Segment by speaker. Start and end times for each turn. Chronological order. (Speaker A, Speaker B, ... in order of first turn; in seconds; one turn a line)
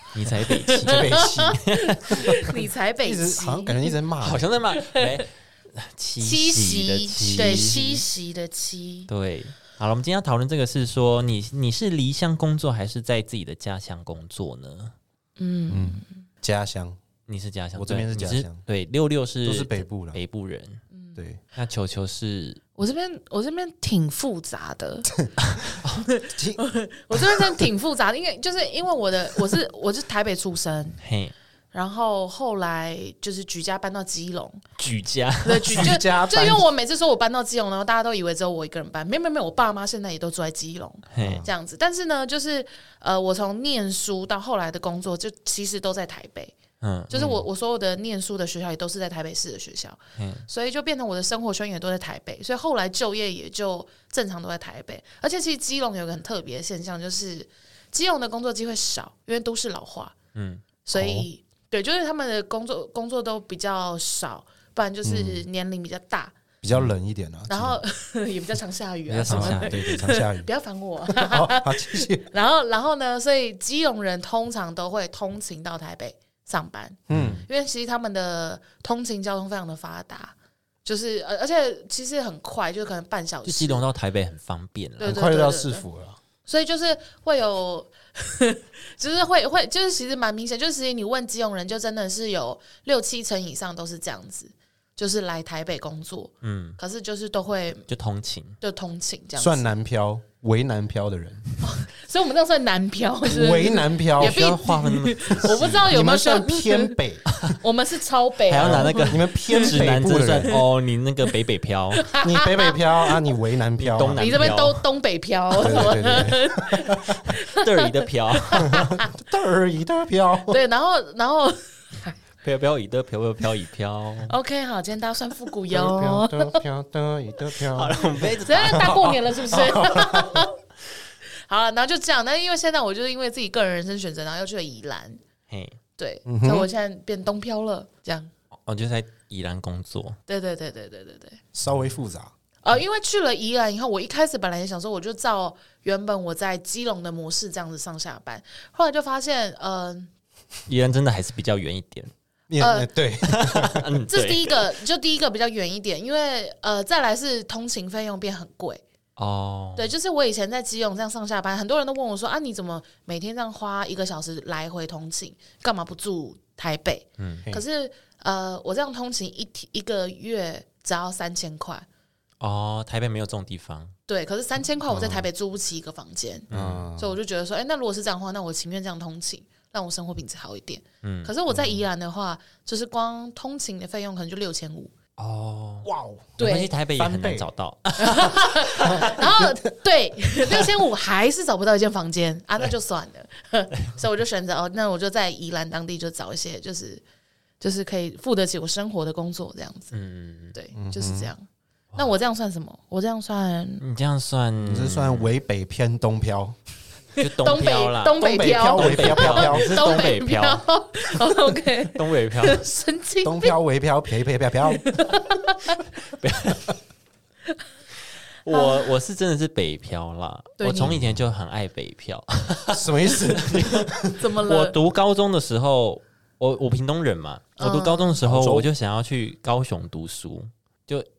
Speaker A: 0.1-2.3
Speaker B: 0.4-3.9
Speaker C: 0.8-2.4
Speaker C: 3.0-4.4
Speaker A: 4.2-8.0
Speaker B: 4.8-5.0
Speaker B: 6.2-9.1
Speaker C: 7.2-7.8
Speaker A: 9.1-14.9
Speaker B: 15.4-16.2
Speaker C: 15.7-17.0
Speaker A: 17.3-20.8
Speaker C: 17.7-18.6
Speaker C: 19.4-20.2
Speaker A: 21.5-22.6
Speaker B: 22.8-25.1
Speaker A: 25.4-26.0
Speaker B: 26.0-31.0
Speaker C: 26.3-26.6
Speaker A: 31.0-31.3
Speaker B: 31.7-34.6
Speaker A: 34.8-35.9
Speaker B: 35.4-46.5
Speaker C: 35.7-36.6
Speaker A: 41.1-41.4
Speaker C: 41.2-41.5
Speaker A: 46.8-47.1
Speaker B: 47.1-60.1
Speaker C: 47.1-47.4
Speaker A: 50.2-50.5
Speaker A: 60.3-60.6
Speaker B: 60.8-66.3
Speaker C: 60.9-61.3
Speaker C: 65.0-65.5
Speaker C: 66.6-67.8
Speaker B: 67.5-83.8
Speaker A: 69.1-70.0
Speaker C: 69.3-70.5
Speaker C: 71.1-72.3
Speaker C: 77.1-77.4
Speaker A: 77.1-77.4
Speaker A: 83.4-85.1
Speaker B: 85.0-85.8
Speaker C: 85.0-86.2
Speaker B: 86.5-97.9
Speaker A: 96.4-96.8
Speaker A: 97.9-98.6
Speaker B: 98.6-99.7
Speaker C: 99.4-101.4
Speaker B: 101.6-106.9
Speaker C: 103.2-104.5
Speaker A: 104.2-106.0
Speaker C: 105.5-107.3
Speaker B: 107.5-110.6
Speaker A: 108.5-112.1
Speaker C: 108.6-110.5
Speaker B: 112.0-113.2
Speaker C: 112.2-114.6
Speaker A: 113.8-114.8
Speaker B: 114.2-119.1
Speaker C: 115.6-117.2
Speaker A: 117.5-118.7
Speaker C: 118.6-120.6
Speaker B: 120.5-122.2
Speaker A: 122.4-124.3
Speaker B: 124.3-126.6
Speaker C: 125.7-130.4
Speaker A: 127.7-129.1
Speaker B: 128.4-130.6
Speaker B: 131.5-135.2
Speaker A: 135.5-135.8
Speaker B: 136.0-138.3
Speaker C: 136.2-136.7
Speaker A: 138.7-140.2
Speaker B: 140.3-141.4
Speaker C: 141.5-142.3
Speaker B: 142.6-150.1
Speaker A: 150.7-152.1
Speaker C: 152.5-153.8
Speaker B: 152.6-152.9
Speaker A: 153.2-154.7
Speaker B: 154.1-158.8
Speaker A: 159.2-159.9
Speaker B: 159.8-171.8
Speaker A: 167.2-167.4
Speaker A: 172.4-173.9
Speaker B: 174.1-184.9
Speaker C: 174.9-175.3
Speaker A: 176.5-176.8
Speaker C: 176.5-177.1
Speaker A: 181.0-181.3
Speaker C: 181.5-181.8
Speaker A: 185.2-185.9
Speaker C: 185.8-186.4
Speaker B: 186.4-186.7
Speaker A: 186.4-189.2
Speaker C: 186.9-187.5
Speaker B: 188.0-197.0
Speaker C: 188.9-189.6
Speaker B: 197.6-199.9
Speaker A: 199.9-200.6
Speaker B: 200.5-201.4
Speaker C: 200.7-201.3
Speaker B: 201.9-203.8
Speaker A: 203.8-205.3
Speaker C: 204.6-206.6
Speaker A: 207.2-210.6
Speaker B: 207.2-213.5
Speaker C: 208.2-210.0
Speaker A: 211.9-212.6
Speaker C: 213.2-214.8
Speaker B: 214.7-215.8
Speaker A: 216.1-216.7
Speaker A: 218.4-231.1
Speaker B: 218.5-218.9
Speaker B: 220.6-220.9
Speaker C: 220.9-221.2
Speaker C: 222.7-224.2
Speaker B: 224.2-224.8
Speaker B: 227.6-228.2
Speaker C: 228.2-228.7